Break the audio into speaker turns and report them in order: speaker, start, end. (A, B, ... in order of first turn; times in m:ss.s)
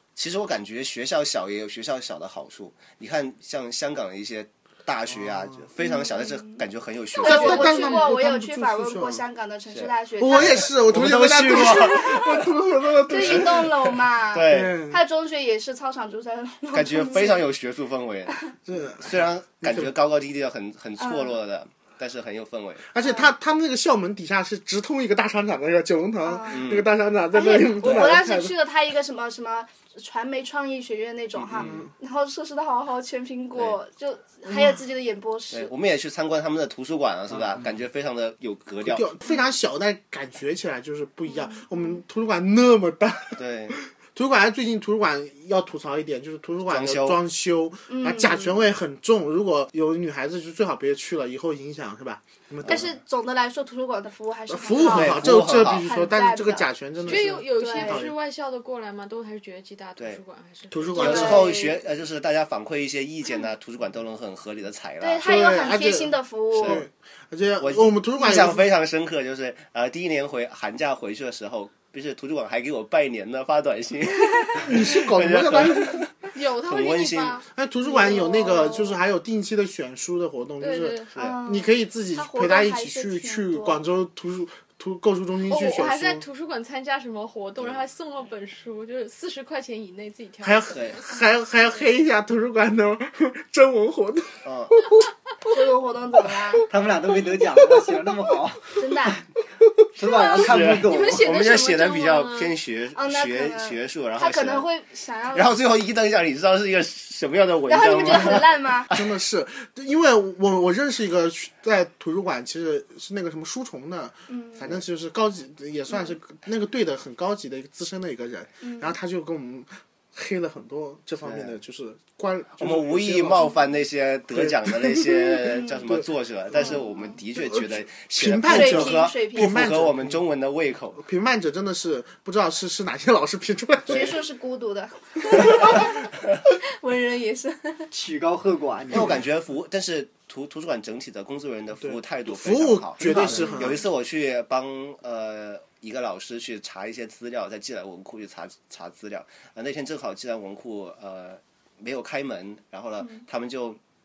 0:00.2-0:07.9 A
0:05.1-0:05.7 B
0:05.8-0:06.6 C
0:07.2-0:10.7 C
0:07.2-0:09.2 B
0:07.3-0:08.1 D
0:09.7-0:12.5 A
0:10.2-0:13.9 B
0:11.6-0:12.2 C
0:13.1-0:17.5 C
0:13.1-0:13.7 A
0:14.3-0:14.8 A
0:14.5-0:15.0 B
0:16.7-0:18.4 A
0:18.7-0:19.9 B
0:19.0-0:22.8 A
0:21.0-0:21.4 C
0:22.9-0:28.6 B
0:23.0-0:23.3 C
0:26.2-0:26.7 C
0:26.5-0:26.9 A
0:27.3-0:35.7 C
0:27.8-0:28.2 A
0:31.4-0:31.8 A
0:31.5-0:31.9 B
0:34.5-0:34.8 B
0:35.5-0:39.1 A
0:38.8-0:52.9 B
0:41.3-0:42.0 C
0:43.4-0:43.8 A
0:46.7-0:47.2 A
0:47.9-0:48.6 C
0:52.6-0:52.9 A
0:52.6-0:56.7 C
0:54.5-0:58.1 B
0:54.9-0:55.9 A
0:57.1-1:01.4 D
0:57.5-0:58.0 C
1:00.7-1:01.5 B
1:01.0-1:01.8 C
1:01.0-1:05.3 A
1:05.0-1:06.8 C
1:05.2-1:08.6 B
1:06.5-1:06.8 A
1:07.6-1:17.4 A
1:14.6-1:16.0 B
1:16.3-1:17.4 D
1:17.5-1:26.2 B
1:17.8-1:18.9 C
1:18.0-1:18.8 D
1:20.6-1:21.1 D
1:21.2-1:23.8 C
1:25.5-1:31.0 D
1:30.4-1:35.0 B
1:30.7-1:31.0 A
1:34.4-1:34.8 A
1:35.5-1:36.7 C
1:36.7-1:39.2 E
1:38.8-1:39.2 C
1:40.0-1:41.3 E
1:40.1-1:42.6 D
1:40.4-1:44.7 A
1:42.9-1:45.5 C
1:45.3-1:49.1 A
1:47.7-1:48.9 C
1:48.1-1:48.4 B
1:48.9-2:03.6 B
1:54.3-1:54.7 C
1:58.6-1:59.0 C
2:01.2-2:01.6 A
2:02.6-2:11.0 A
2:04.3-2:06.8 B
2:05.6-2:05.8 C
2:06.6-2:07.2 C
2:07.3-2:10.2 B
2:08.4-2:09.6 C
2:11.0-2:14.2 B
2:13.9-2:16.0 C
2:13.9-2:14.1 A
2:16.8-2:17.9 C
2:17.9-2:19.2 E
2:18.9-2:33.8 A
2:21.8-2:23.8 B
2:23.1-2:23.8 C